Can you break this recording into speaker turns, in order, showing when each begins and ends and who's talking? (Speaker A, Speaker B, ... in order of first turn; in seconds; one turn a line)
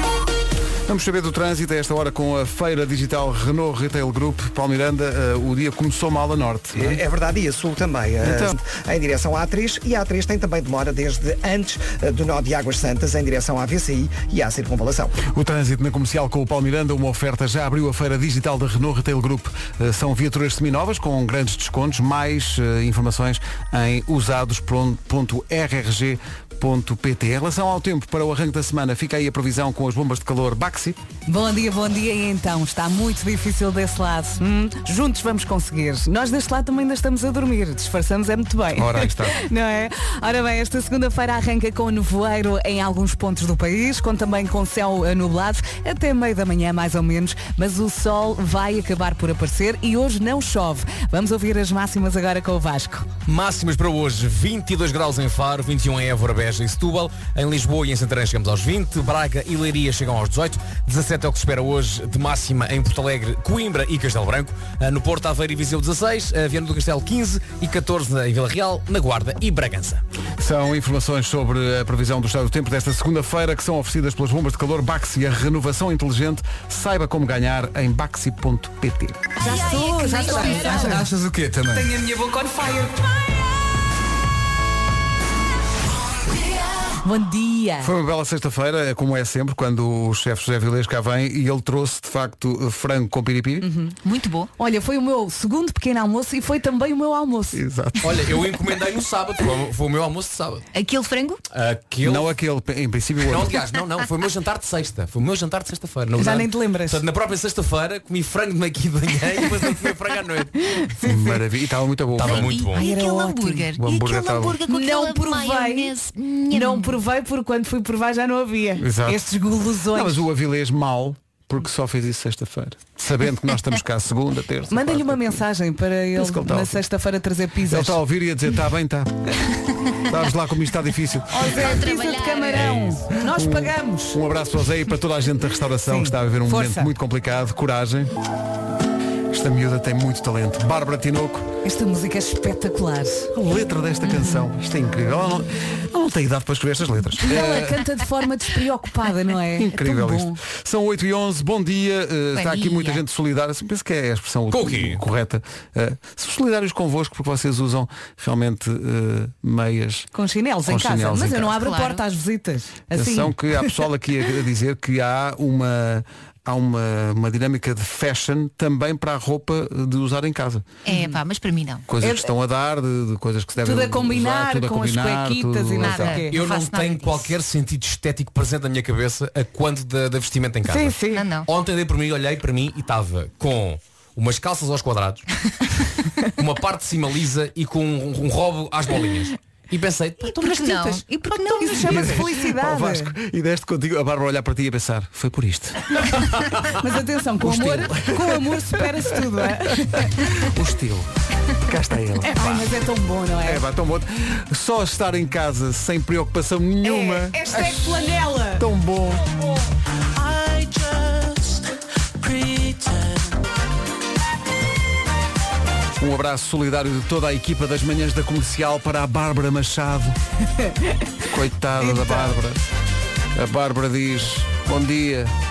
Speaker A: 0.9-7.0
Speaker B: 6.7-15.2
Speaker A: 8.2-8.6
Speaker A: 15.2-31.0
Speaker C: 31.3-53.1
Speaker A: 38.7-39.4
Speaker D: 53.2-70.0
Speaker A: 70.4-79.3
Speaker C: 79.4-81.1
Speaker E: 79.5-81.0
Speaker A: 80.6-81.9
Speaker C: 81.7-83.1
Speaker C: 87.0-87.9
Speaker A: 87.8-93.7
Speaker C: 93.6-93.9
Speaker E: 94.0-94.5
Speaker C: 94.6-97.6
Speaker A: 97.5-98.3
Speaker D: 98.0-100.7
Speaker E: 100.7-101.4
Speaker D: 101.5-102.3
Speaker A: 102.0-103.5
Speaker D: 103.3-110.5
Speaker C: 106.2-107.0
Speaker C: 110.7-111.4
Speaker A: 111.0-112.6
Speaker D: 112.2-112.8
Speaker E: 112.2-117.0
Speaker C: 112.7-113.7
Speaker A: 113.8-114.6
Speaker C: 114.7-115.9
Speaker C: 116.5-120.2
Speaker A: 118.8-119.2
Speaker A: 119.9-125.4
Speaker C: 124.7-128.0
Speaker A: 126.2-126.8
Speaker A: 127.7-129.2
Speaker A: 130.1-131.5
Speaker C: 131.3-134.2
Speaker E: 131.5-132.8
Speaker D: 132.5-133.0
Speaker A: 133.2-138.1
Speaker C: 135.9-136.9
Speaker A: 139.3-141.5
Speaker C: 141.6-143.3
Speaker A: 143.3-147.9
Speaker C: 144.0-144.4
Speaker C: 147.2-150.4
Speaker A: 149.5-160.1
Speaker E: 152.3-153.0
Speaker D: 154.5-155.0
Speaker C: 160.1-163.8
Speaker A: 160.6-161.5
Speaker E: 161.5-162.0
Speaker A: 162.9-170.7
Speaker E: 170.8-171.8
Speaker C: 170.9-171.1
Speaker A: 171.9-176.2
Speaker C: 172.0-172.3
Speaker C: 173.6-176.3
Speaker E: 175.8-177.3
Speaker D: 176.3-185.2
Speaker C: 180.7-181.2
Speaker E: 181.1-181.5
Speaker D: 186.3-191.2
Speaker E: 190.2-191.9
Speaker C: 191.5-193.1
Speaker A: 191.8-196.2
Speaker C: 196.8-200.2
Speaker A: 197.4-199.2
Speaker A: 200.2-201.1
Speaker A: 201.6-202.7
Speaker C: 202.2-203.6
Speaker A: 203.4-209.3
Speaker C: 206.8-208.6
Speaker D: 210.4-210.7
Speaker A: 216.0-220.2
Speaker C: 220.6-221.1
Speaker A: 221.2-222.6
Speaker C: 221.8-222.4
Speaker A: 223.3-225.3